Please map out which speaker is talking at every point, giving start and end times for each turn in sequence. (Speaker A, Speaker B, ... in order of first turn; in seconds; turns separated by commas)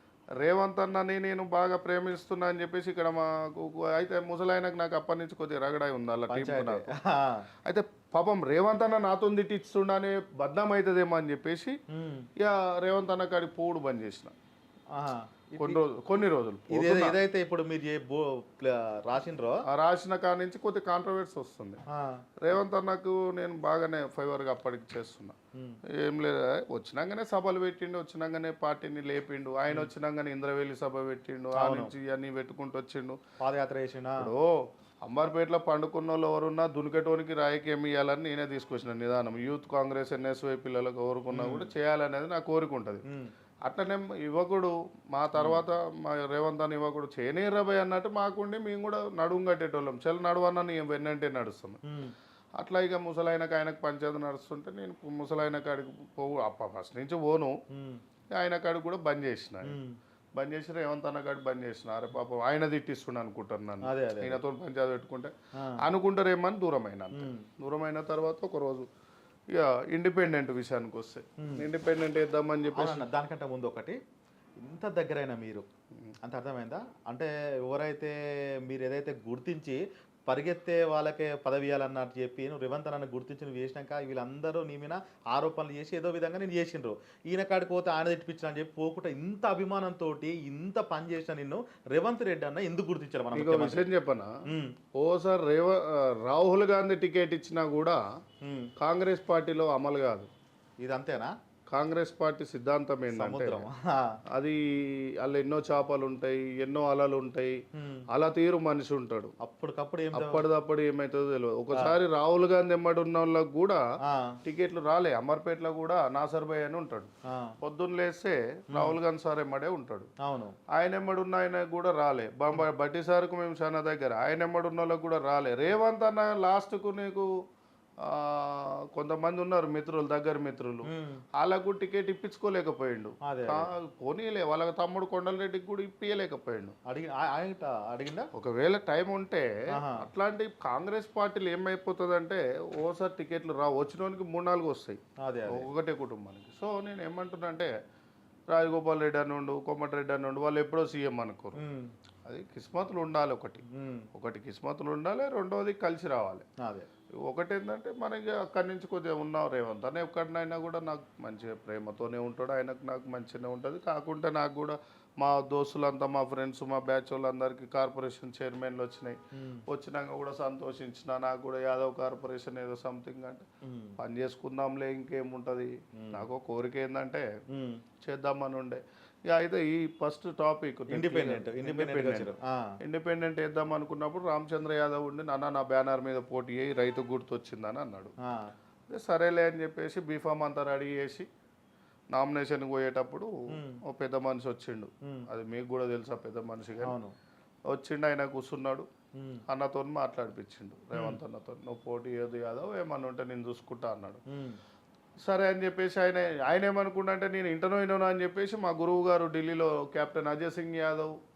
Speaker A: 0.4-6.9, Speaker B: 6.3-7.5, Speaker A: 7.7-11.8, Speaker B: 11.9-12.2, Speaker A: 12.4-14.3, Speaker B: 14.9-15.8, Speaker A: 15.6-17.2, Speaker B: 16.7-19.6, Speaker A: 19.7-21.8, Speaker B: 21.9-22.2, Speaker A: 22.4-25.4, Speaker A: 26.0-33.2, Speaker B: 31.6-31.9, Speaker B: 33.4-34.2, Speaker A: 34.2-34.5, Speaker A: 35.0-43.0, Speaker B: 41.3-41.7, Speaker A: 43.7-51.8, Speaker B: 45.4-45.6, Speaker B: 51.9-52.1, Speaker A: 52.6-57.5, Speaker B: 57.7-58.0, Speaker A: 58.3-59.8, Speaker B: 59.6-60.0, Speaker A: 60.4-68.9, Speaker B: 63.8-64.4, Speaker B: 67.1-67.5, Speaker A: 69.5-73.1, Speaker B: 72.7-74.0, Speaker B: 74.6-75.7, Speaker B: 76.2-93.8, Speaker A: 93.3-94.3, Speaker B: 94.5-94.7, Speaker A: 95.0-98.0, Speaker B: 98.4-98.7, Speaker A: 98.8-100.3, Speaker B: 100.8-101.3, Speaker A: 101.7-103.7, Speaker B: 103.1-104.1, Speaker A: 105.2-107.5, Speaker B: 107.8-108.0, Speaker A: 108.1-109.3, Speaker B: 109.4-110.4, Speaker A: 110.1-113.8, Speaker B: 114.0-114.3, Speaker A: 114.4-120.1, Speaker B: 118.7-119.0, Speaker B: 120.2-120.5, Speaker A: 120.7-127.3, Speaker A: 128.0-136.8, Speaker B: 130.8-131.2, Speaker B: 133.3-133.6, Speaker B: 136.9-138.3, Speaker A: 138.3-147.7, Speaker B: 139.7-140.0, Speaker B: 145.2-145.7, Speaker A: 148.5-151.6, Speaker B: 151.6-151.9, Speaker A: 152.2-156.4, Speaker B: 153.7-154.1, Speaker B: 156.6-156.9, Speaker A: 157.2-173.4, Speaker B: 169.3-169.6, Speaker B: 173.6-173.9, Speaker A: 174.0-177.2, Speaker B: 176.0-176.3, Speaker B: 177.5-177.8, Speaker A: 178.0-188.1, Speaker B: 180.9-182.7, Speaker B: 188.2-188.5, Speaker A: 188.9-191.3, Speaker A: 192.1-193.3, Speaker B: 193.5-193.8, Speaker A: 193.8-197.0, Speaker B: 196.8-197.1, Speaker A: 197.7-198.9, Speaker A: 199.5-204.2, Speaker B: 200.9-201.2, Speaker B: 204.3-204.6, Speaker A: 205.2-211.1